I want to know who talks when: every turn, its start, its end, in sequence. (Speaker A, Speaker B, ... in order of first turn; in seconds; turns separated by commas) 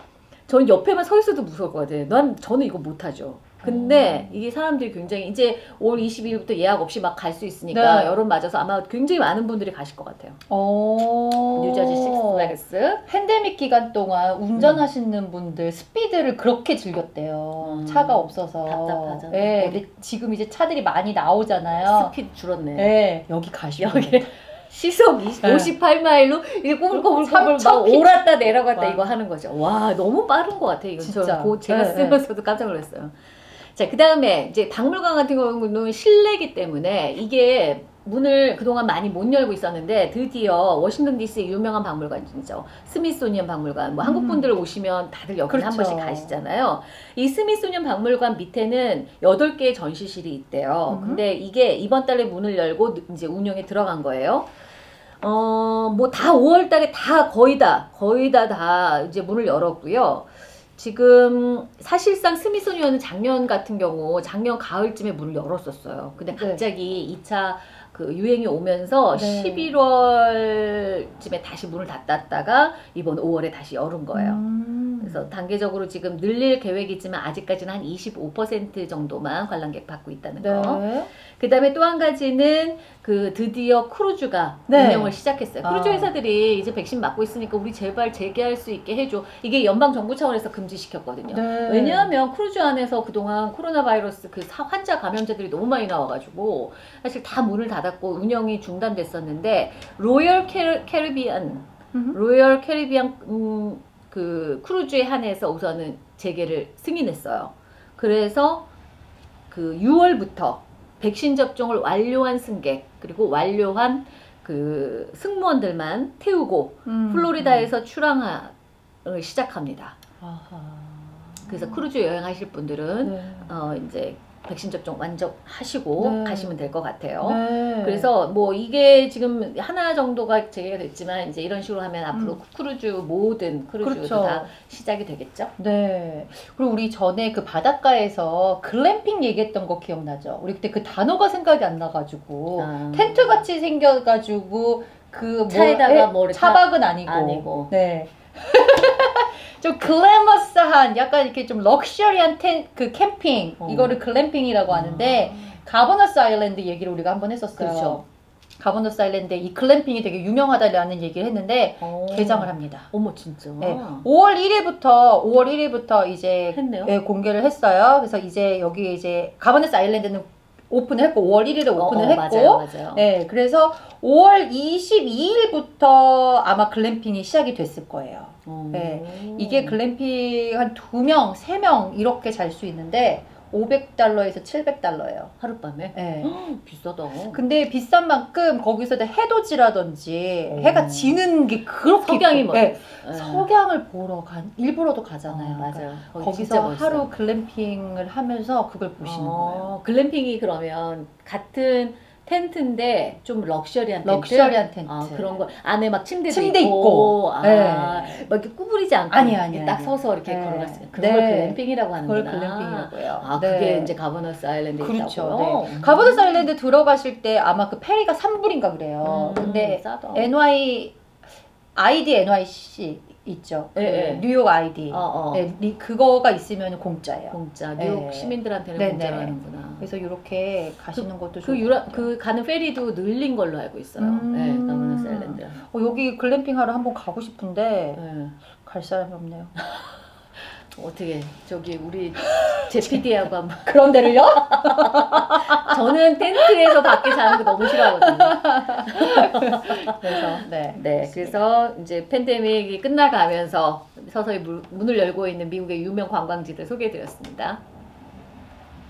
Speaker A: 0.5-10.4, Speaker B: 3.6-4.4, Speaker B: 7.7-8.2, Speaker B: 10.5-22.1, Speaker A: 11.5-13.0, Speaker A: 14.6-14.8, Speaker A: 17.6-19.8, Speaker A: 21.8-22.9, Speaker B: 22.8-24.3, Speaker A: 23.8-54.5, Speaker B: 25.4-25.7, Speaker B: 26.9-29.1, Speaker B: 31.0-32.2, Speaker B: 44.0-44.5, Speaker B: 45.5-46.3, Speaker B: 50.9-51.2, Speaker A: 55.2-74.4, Speaker B: 66.3-66.6, Speaker B: 69.1-69.7, Speaker B: 74.1-75.2, Speaker A: 75.0-108.7, Speaker B: 80.4-81.1, Speaker B: 84.7-86.1, Speaker B: 91.3-92.1, Speaker A: 109.5-118.5, Speaker B: 116.8-117.7, Speaker A: 119.0-120.0, Speaker B: 120.2-121.8, Speaker A: 121.5-135.5, Speaker B: 123.0-123.5, Speaker B: 126.0-126.5, Speaker B: 127.2-128.1, Speaker B: 132.1-132.4, Speaker B: 133.8-134.5, Speaker B: 135.6-158.0, Speaker A: 142.6-143.4, Speaker A: 145.5-147.7, Speaker A: 153.6-154.0, Speaker A: 154.7-155.6, Speaker A: 157.6-158.0, Speaker B: 158.6-162.9, Speaker A: 161.8-164.1, Speaker B: 163.6-185.3, Speaker A: 166.5-166.9, Speaker A: 171.8-173.1, Speaker A: 178.4-179.8, Speaker A: 185.4-187.4, Speaker B: 185.9-186.4, Speaker B: 187.3-199.8, Speaker A: 190.5-191.2, Speaker A: 191.9-193.5, Speaker A: 195.3-197.1, Speaker A: 199.0-216.4, Speaker B: 204.0-205.4, Speaker B: 206.3-208.3, Speaker B: 209.1-213.9, Speaker B: 214.8-221.0, Speaker A: 219.0-220.3, Speaker B: 221.8-232.1, Speaker A: 223.7-224.3, Speaker A: 224.9-225.4, Speaker A: 227.3-229.9, Speaker A: 230.9-235.6, Speaker B: 234.0-238.0, Speaker A: 237.9-238.4, Speaker B: 238.6-239.5, Speaker A: 240.7-257.6, Speaker B: 242.2-243.0, Speaker B: 243.7-245.7, Speaker B: 246.4-251.4